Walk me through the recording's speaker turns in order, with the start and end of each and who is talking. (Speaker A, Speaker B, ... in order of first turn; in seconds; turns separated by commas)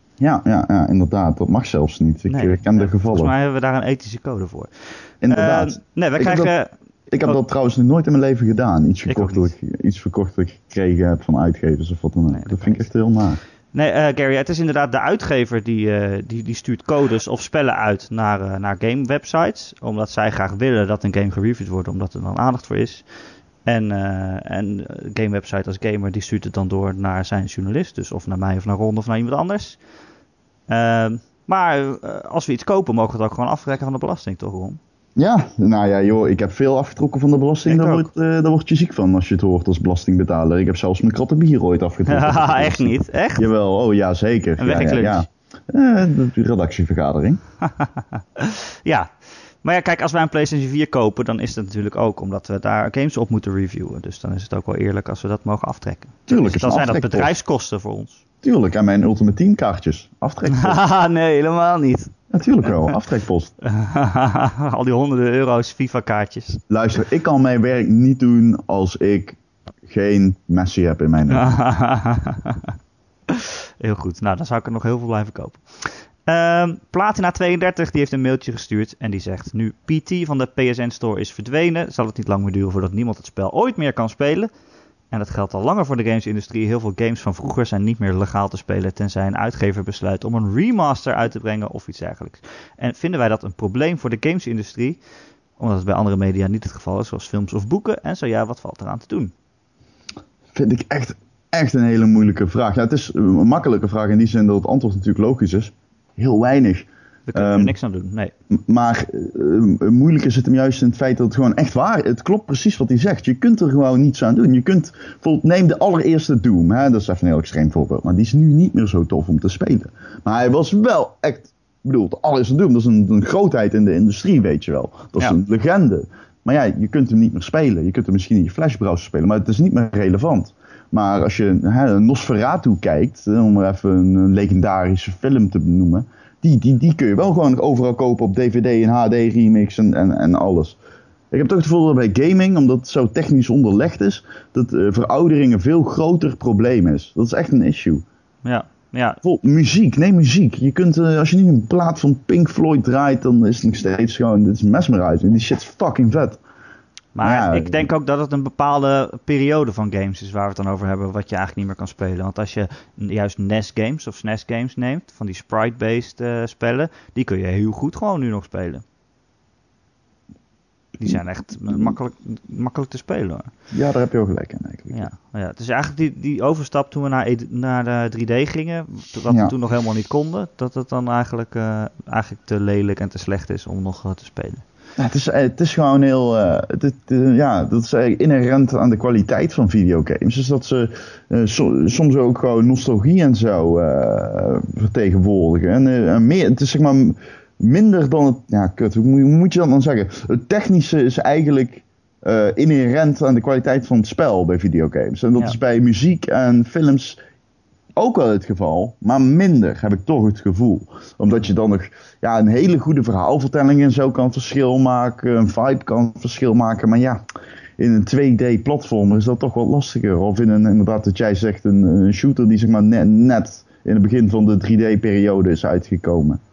Speaker A: 0.2-3.3, Speaker B: 2.3-6.7, Speaker A: 5.2-6.5, Speaker A: 7.1-13.4, Speaker B: 9.1-9.5, Speaker B: 12.3-12.9, Speaker B: 13.7-23.0, Speaker B: 23.6-29.8, Speaker B: 30.7-34.8, Speaker A: 35.2-47.4, Speaker B: 37.6-38.1, Speaker B: 42.0-43.5, Speaker B: 44.6-45.2, Speaker B: 47.8-58.2, Speaker A: 56.3-57.3, Speaker A: 58.4-60.8, Speaker B: 60.5-62.1, Speaker A: 62.3-63.5, Speaker B: 62.6-62.9, Speaker B: 63.6-66.6, Speaker A: 66.7-71.5, Speaker B: 71.3-72.7, Speaker B: 73.3-84.5, Speaker B: 85.1-95.0, Speaker B: 95.6-99.3, Speaker A: 100.5-107.8, Speaker B: 107.3-108.3, Speaker A: 108.5-140.8, Speaker A: 141.3-148.0, Speaker B: 148.4-149.2, Speaker A: 149.2-156.4, Speaker B: 157.1-168.8, Speaker A: 157.2-157.9, Speaker B: 171.0-173.5, Speaker A: 171.0-172.0, Speaker A: 173.7-175.1, Speaker B: 174.9-184.6, Speaker A: 179.3-179.5, Speaker A: 185.0-207.2, Speaker A: 207.9-217.2, Speaker A: 217.8-226.4